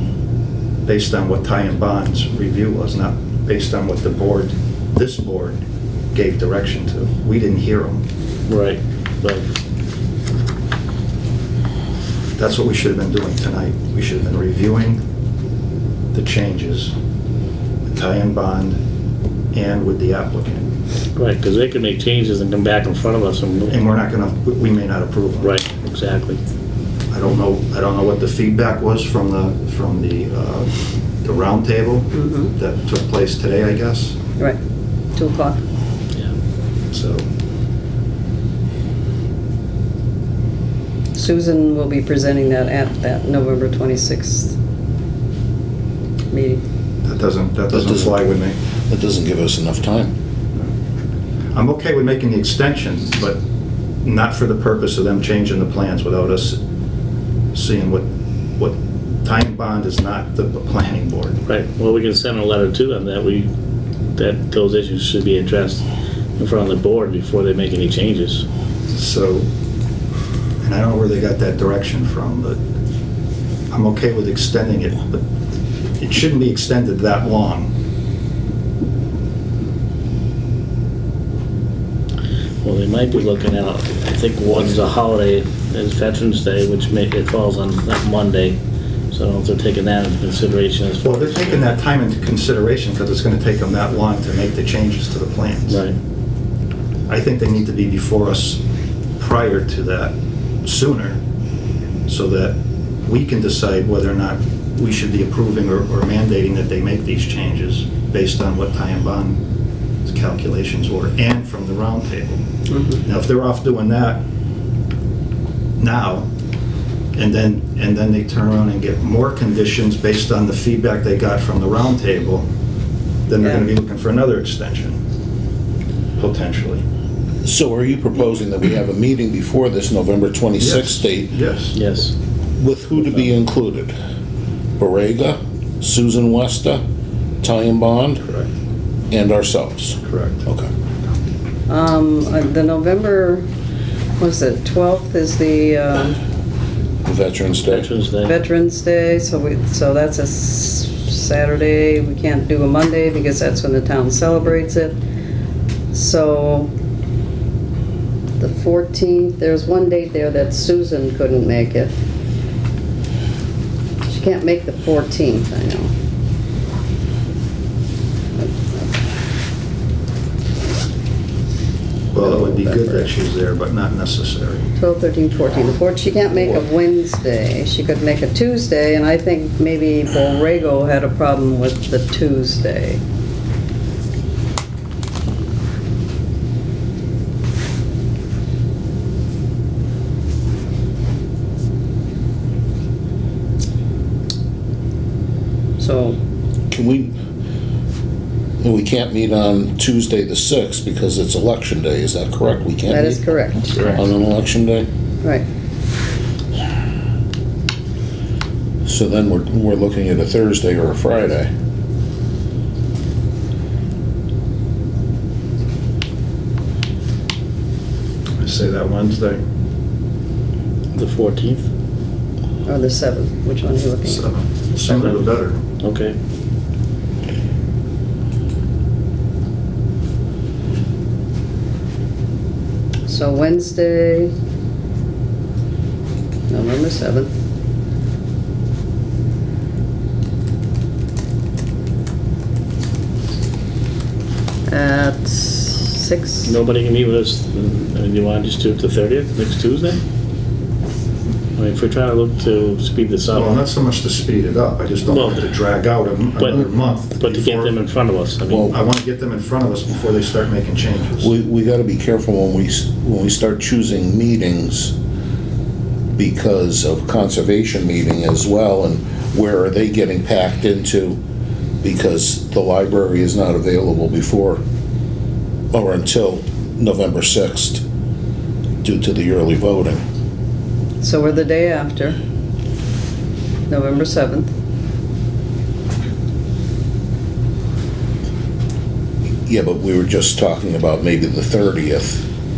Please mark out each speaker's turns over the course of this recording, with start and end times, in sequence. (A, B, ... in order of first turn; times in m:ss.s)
0:00.8-0:05.6 A
0:06.1-0:08.0 A
0:08.5-0:09.5 B
0:12.4-0:15.0 A
0:16.1-0:16.9 A
0:17.9-0:18.8 A
0:19.5-0:20.7 A
0:21.2-0:23.8 B
0:23.7-0:25.6 A
0:25.4-0:26.4 B
0:27.1-0:34.2 A
0:32.1-0:32.5 C
0:35.2-0:35.6 C
0:36.9-0:37.3 A
0:41.2-0:44.6 C
0:46.3-0:46.6 C
0:47.0-0:48.6 A
0:47.7-0:48.2 D
0:48.9-0:50.1 D
0:51.5-0:53.4 A
0:54.0-0:56.6 A
0:57.5-1:01.4 A
1:01.5-1:03.5 B
1:04.2-1:05.9 B
1:06.4-1:08.4 B
1:08.9-1:09.5 A
1:10.6-1:12.6 A
1:13.7-1:15.2 A
1:16.0-1:17.7 A
1:22.6-1:28.6 B
1:29.1-1:31.7 B
1:31.0-1:35.8 A
1:35.7-1:36.0 B
1:37.1-1:38.6 A
1:39.2-1:41.2 A
1:42.1-1:49.4 A
1:50.0-1:52.4 A
1:52.7-1:53.0 C
1:53.0-1:54.2 A
1:55.8-1:56.3 A
1:57.1-2:02.5 A
2:03.3-2:05.0 A
2:06.2-2:06.8 A
2:07.4-2:11.3 D
2:10.6-2:11.8 A
2:11.7-2:12.1 B
2:12.6-2:14.0 D
2:14.8-2:16.8 D
2:17.4-2:18.2 D
2:18.2-2:18.5 A
2:19.1-2:20.7 D
2:20.0-2:20.4 A
2:21.7-2:23.5 C
2:24.2-2:26.2 C
2:27.0-2:27.9 D
2:27.7-2:28.4 B
2:28.2-2:35.0 C
2:35.9-2:36.7 C
2:38.4-2:42.0 C
2:44.1-2:45.9 C
2:48.4-2:48.9 C
2:52.1-2:54.7 A
2:52.2-2:53.1 C
2:54.8-3:03.0 C
3:15.8-3:16.2 C
3:16.7-3:17.2 D
3:18.6-3:24.9 D
3:22.9-3:24.0 C
3:23.8-3:24.0 B
3:28.8-3:31.5 D
3:38.4-3:39.4 A
3:40.9-3:41.7 B
3:42.7-3:44.3 C
3:44.0-3:45.6 A
3:44.9-3:45.2 B
3:45.8-3:46.2 B
3:53.1-3:54.3 C
3:56.5-3:57.3 C
4:04.7-4:06.6 C
4:06.4-4:10.0 B
4:11.6-4:13.6 B
4:13.3-4:17.8 A
4:15.1-4:15.5 B
4:16.4-4:16.7 B
4:17.2-4:18.8 B
4:18.5-4:18.8 D
4:18.7-4:21.3 A
4:21.2-4:24.9 D
4:26.2-4:31.2 D
4:31.8-4:34.6 D
4:35.7-4:37.8 D
4:38.8-4:40.0 D
4:41.0-4:42.2 C
4:43.7-4:44.5 C
4:49.5-4:52.3 D